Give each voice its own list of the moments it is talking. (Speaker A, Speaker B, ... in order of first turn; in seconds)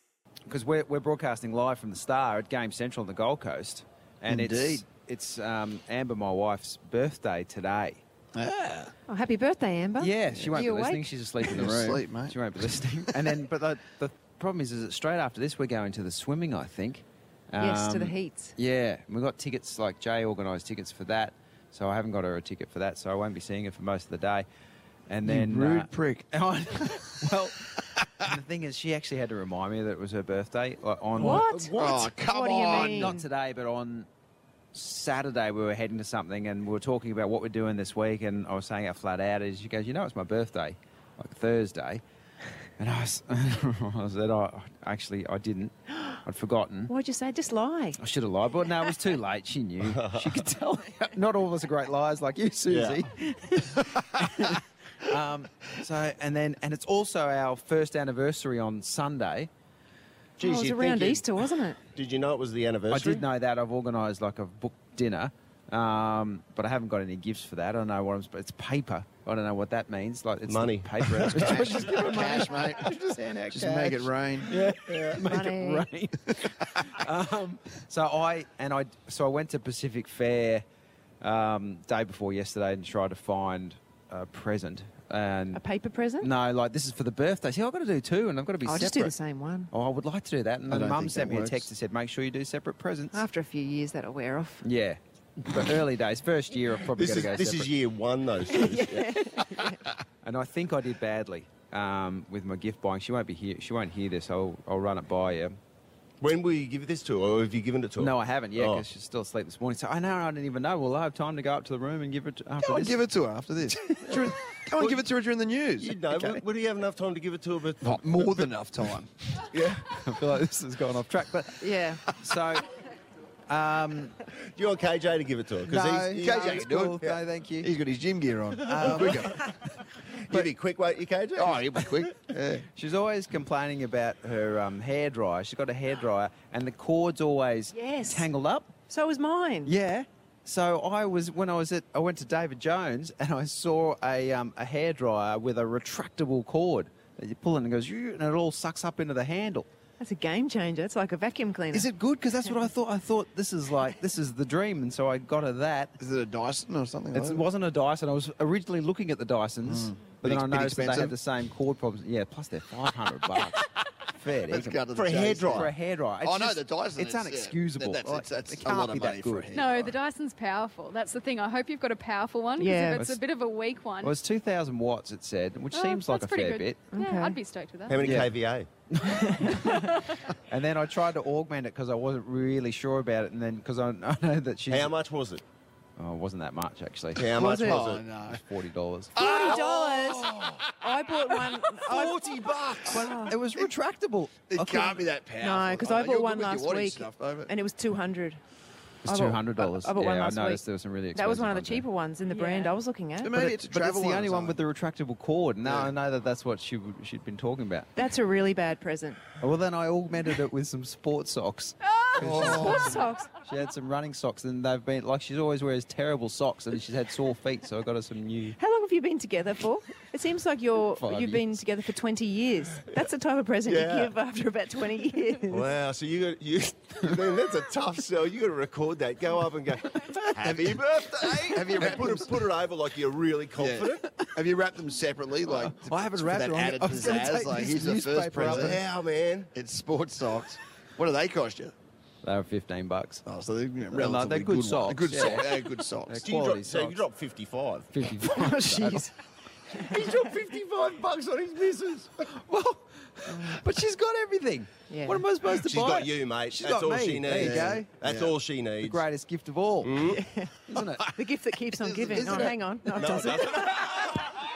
Speaker A: 0.5-8.0, 10.0-24.5, 25.1-31.5, 32.9-34.1, 34.7-42.0, 42.8-46.9, 48.0-59.5, 62.9-80.6, 81.2-85.6, 86.2-89.2, 89.7-93.2, 94.6-97.7, 100.2-105.6, 108.0-113.0, 119.9-122.7, 123.5-124.2, 125.7-127.7, 128.6-129.3, 132.8-138.7, 139.7-149.7, 151.7-155.9, 157.1-164.8, 165.5-169.5, 174.0-176.8, 178.0-178.3, 178.9-184.9, 186.0-187.7, 188.2-189.2, 192.9-195.1, 199.0-201.9, 203.2-207.9, 209.4-218.6, 220.9-221.5, 235.5-238.8, 242.2-243.2, 243.9-247.0, 247.9-249.1, 252.3-257.9, 258.8-260.1, 260.7-261.1
Speaker B: 4.3-4.8, 8.3-8.9, 10.3-10.7, 11.4-12.4, 25.2-26.3, 31.7-33.2, 71.4-74.5, 90.7-91.7, 112.6-116.4, 117.8-119.2, 126.2-127.1, 127.6-129.5, 131.4-132.7, 156.0-157.4, 159.6-161.2, 164.5-169.9, 187.2-188.4, 189.2-193.7, 194.5-197.5, 203.2-204.6, 205.7-205.9, 212.2-213.1, 230.1-232.5, 233.6-238.8, 239.5-241.8, 243.2-246.2, 257.3-258.4, 261.8-262.7
Speaker C: 9.1-11.1, 17.6-18.5, 31.2-33.2, 46.9-48.0, 60.4-61.8, 75.2-75.8, 85.5-86.3, 88.7-89.7, 93.1-94.6, 98.5-99.8, 121.6-122.0, 137.7-138.3, 138.9-139.7, 150.0-151.9, 172.6-173.0, 176.9-177.4, 189.2-192.3, 192.9-193.4, 195.4-198.4, 199.1-200.6, 201.1-203.3, 208.0-209.2, 212.4-213.3, 218.6-225.7, 248.3-249.1, 253.3-253.6, 254.9-255.3, 260.1-260.6, 261.1-263.9
Speaker D: 31.2-32.1, 49.9-50.3, 52.7-53.0, 60.4-63.3, 70.5-71.8, 74.8-75.2, 97.0-99.2, 106.2-108.9, 114.8-115.0, 115.8-118.5, 119.5-119.9, 124.3-127.2, 130.3-131.9, 164.9-165.7, 177.9-178.7, 184.7-185.4, 187.2-188.1, 223.7-224.1, 225.5-234.0, 238.4-239.5, 246.2-247.9, 249.7-252.2, 255.5-259.0, 259.8-260.3, 262.9-264.0
Speaker E: 169.5-174.1, 175.7-178.1, 202.3-202.8